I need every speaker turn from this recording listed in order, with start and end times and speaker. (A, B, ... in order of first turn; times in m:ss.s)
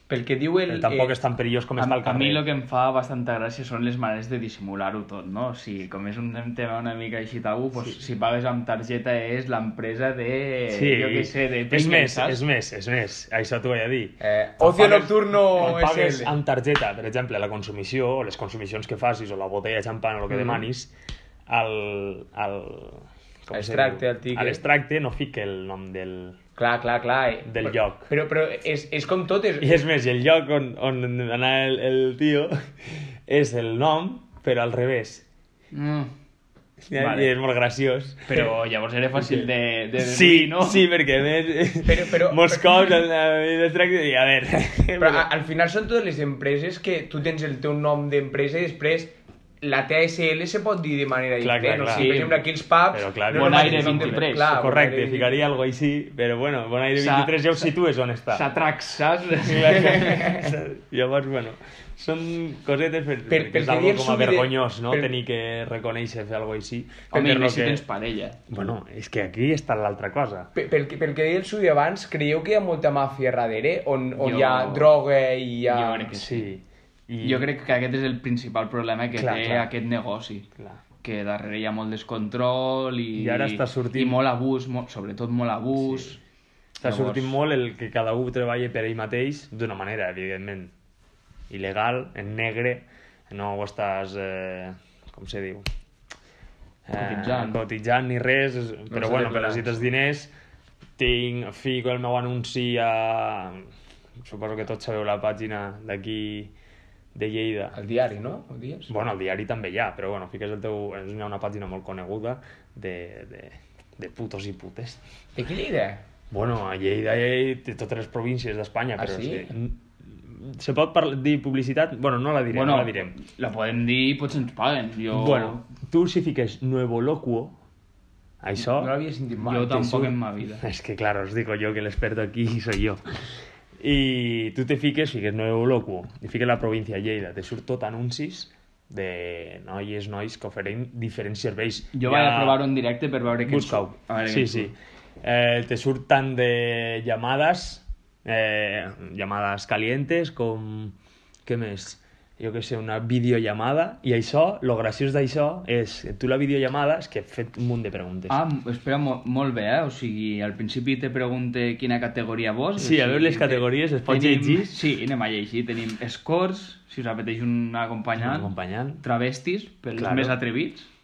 0:00.1-0:01.1 A
0:00.7-0:02.4 B
0:01.8-0:12.4 C
0:10.7-0:20.9 B
0:14.2-0:16.3 A
0:21.5-0:26.4 B
0:23.5-0:24.6 A
0:26.6-0:29.9 A
0:27.4-0:28.1 B
0:29.6-0:35.2 B
0:35.7-0:36.1 C
0:36.9-0:38.5 B
0:37.0-0:37.3 C
0:38.3-0:40.8 C
0:39.2-0:45.3 B
0:41.8-0:42.9 A
0:45.0-0:55.4 A
0:51.4-0:52.3 B
0:51.9-0:52.4 C
0:52.9-0:58.4 B
0:53.3-0:54.6 C
0:57.0-0:57.7 C
0:58.3-1:00.4 C
0:59.4-1:07.8 B
1:03.3-1:05.1 A
1:07.1-1:08.4 C
1:08.5-1:10.5 B
1:10.6-1:16.1 A
1:14.2-1:14.9 C
1:15.7-1:16.5 C
1:16.1-1:17.5 B
1:17.2-1:20.5 C
1:19.1-1:19.7 B
1:21.0-1:26.2 C
1:23.2-1:24.2 B
1:25.8-1:26.1 B
1:26.8-1:27.4 C
1:26.8-1:30.7 B
1:31.5-1:35.7 B
1:36.9-1:40.3 B
1:36.9-1:37.6 C
1:38.9-1:39.8 A
1:41.0-1:43.7 B
1:44.2-1:46.5 B
1:47.1-1:47.8 B
1:47.7-1:49.0 A
1:48.9-1:55.0 B
1:55.4-1:56.0 A
1:56.3-2:03.1 B
1:59.0-1:59.5 A
2:02.5-2:05.6 C
2:05.1-2:07.6 B
2:08.4-2:08.9 B
2:08.6-2:09.8 A
2:09.5-2:10.6 C
2:09.7-2:13.0 B
2:13.8-2:22.6 B
2:21.9-2:24.7 C
2:23.5-2:31.0 B
2:31.5-2:38.4 B
2:38.3-2:50.9 C
2:42.8-2:44.8 B
2:48.2-2:49.0 B
2:50.0-2:50.4 B